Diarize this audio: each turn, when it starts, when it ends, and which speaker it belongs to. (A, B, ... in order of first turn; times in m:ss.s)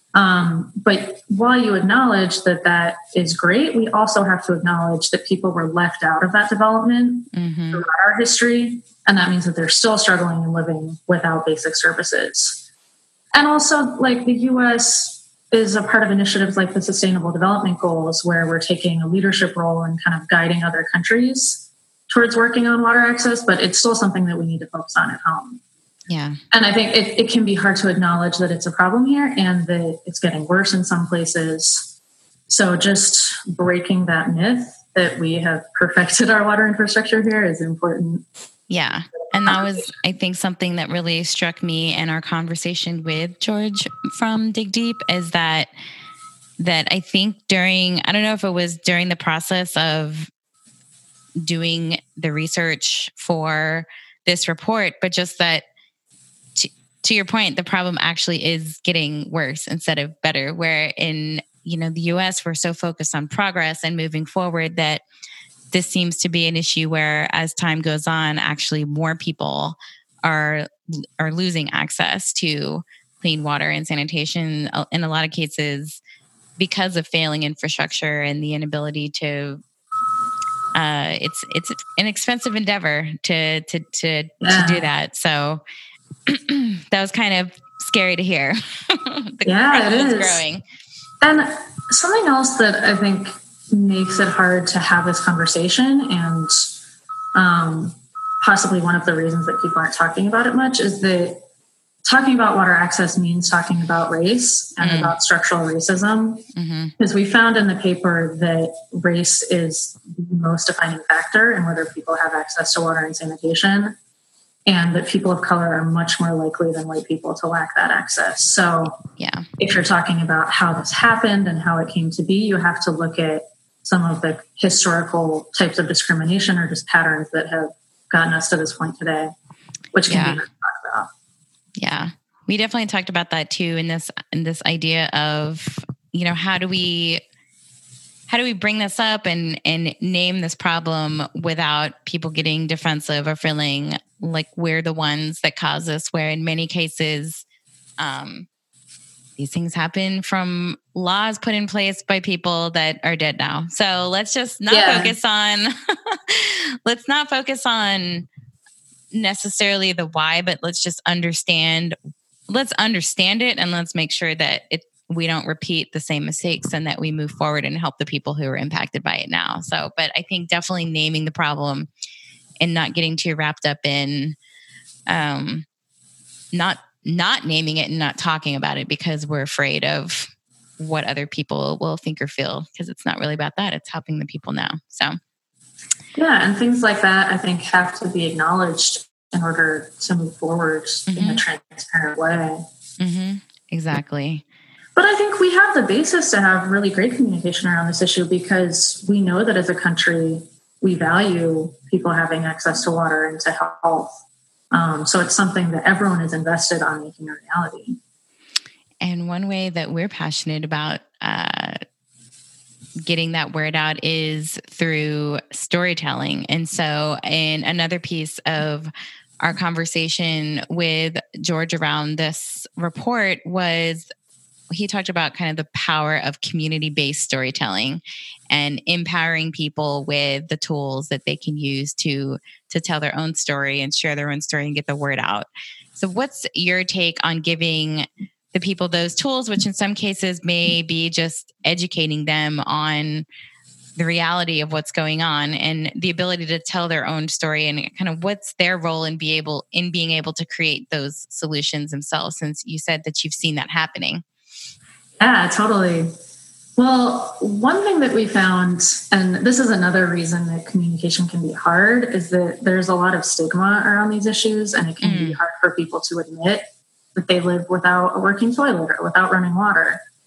0:00.1-0:12.6 A
0:07.3-0:07.8 B
0:13.3-0:25.6 A
0:26.1-0:26.4 B
0:26.5-0:31.9 A
0:32.5-0:38.2 A
0:38.7-0:45.7 B
0:39.3-0:39.9 A
0:46.6-0:50.3 B
0:51.4-0:55.6 B
0:56.5-1:05.0 B
1:05.7-1:16.0 B
1:16.6-1:19.6 B
1:20.7-1:25.6 B
1:24.4-1:24.9 A
1:26.3-1:30.6 B
1:29.4-1:30.4 A
1:31.2-1:36.7 A
1:37.4-1:41.4 A
1:42.1-1:46.5 A
1:44.8-1:45.1 B
1:46.6-1:46.9 B
1:47.0-1:54.0 A
1:54.7-1:59.0 A
1:59.1-1:59.4 B
1:59.6-2:09.3 A
2:09.9-2:11.1 A
2:10.1-2:10.4 B
2:11.8-2:17.2 B
2:18.3-2:27.4 B
2:28.0-2:28.5 B
2:29.4-2:38.3 B
2:34.7-2:35.2 A
2:39.1-2:42.0 B
2:42.5-2:51.9 B
2:52.6-2:54.4 B
2:55.1-2:55.6 B
2:56.5-3:05.2 B
3:06.1-3:12.6 A
3:11.1-3:11.4 B
3:13.0-3:14.4 B
3:15.0-3:24.2 A
3:24.7-3:28.0 A
3:29.0-3:31.8 B
3:33.0-3:44.1 B
3:44.7-4:03.2 B
4:04.0-4:14.2 B
4:15.2-4:16.1 A
4:16.8-4:30.0 A
4:25.0-4:25.4 B